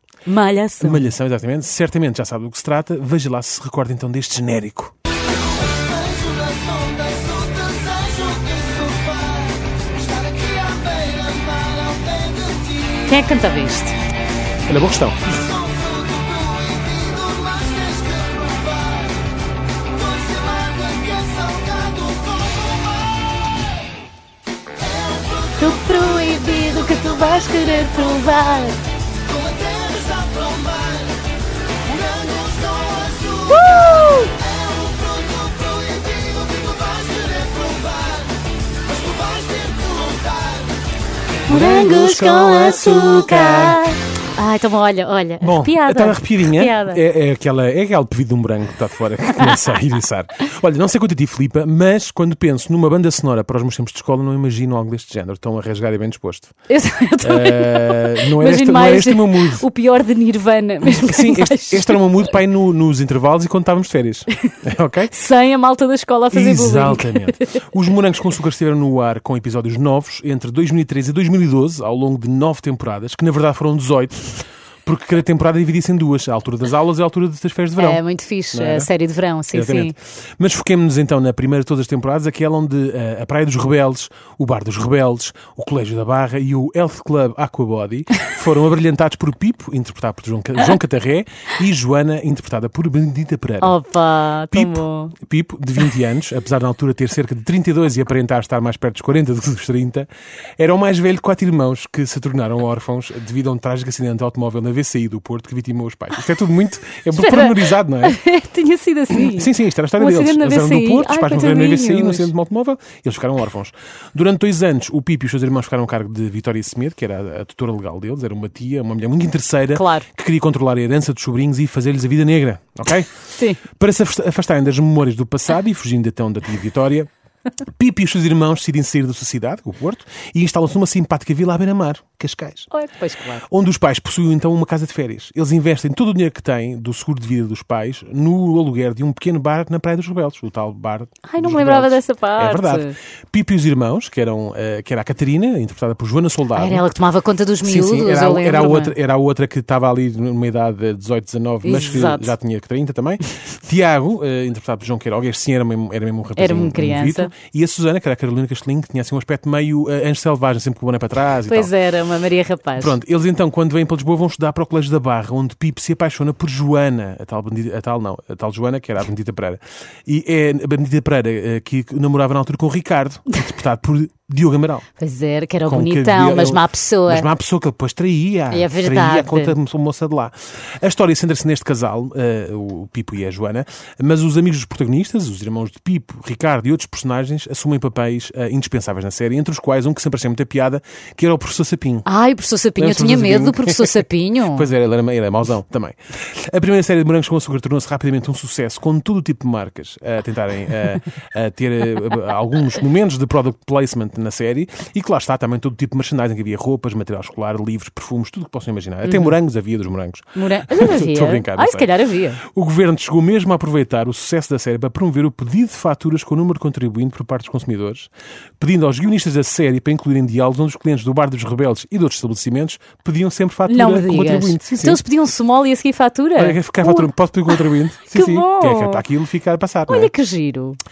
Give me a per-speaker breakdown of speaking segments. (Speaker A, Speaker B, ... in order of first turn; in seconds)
Speaker A: 0.3-1.1, 12.9-14.0, 25.4-28.8, 33.5-34.3, 41.5-47.0, 56.7-62.0, 65.1-67.6, 77.8-79.9, 93.6-95.1, 107.1-112.3, 119.7-120.0, 123.3-123.6, 132.7-133.4, 141.3-142.9, 146.6-148.9, 151.6-152.3, 156.4-157.3, 161.5-162.9, 175.0-177.3, 178.5-179.6, 192.1-194.7, 209.1-209.3, 210.4-212.4, 223.7-229.1, 229.9-230.8
Speaker B: 0.8-4.9, 14.7-15.3, 41.5-43.8, 45.4-56.5, 57.2-59.6, 60.9-65.1, 66.3-74.3, 74.8-78.0, 78.5-78.9, 79.5-93.8, 94.5-100.1, 100.6-108.2, 109.1-123.1, 123.7-127.1, 127.7-132.7, 133.4-146.8, 147.6-161.7, 162.8-174.9, 175.7-192.1, 192.8-211.9, 212.4-225.0, 226.4-230.1
Speaker C: 6.5-9.4, 10.1-12.6, 15.8-19.0, 20.0-22.9, 29.3-31.1, 32.0-33.5, 34.4-38.2, 39.1-40.6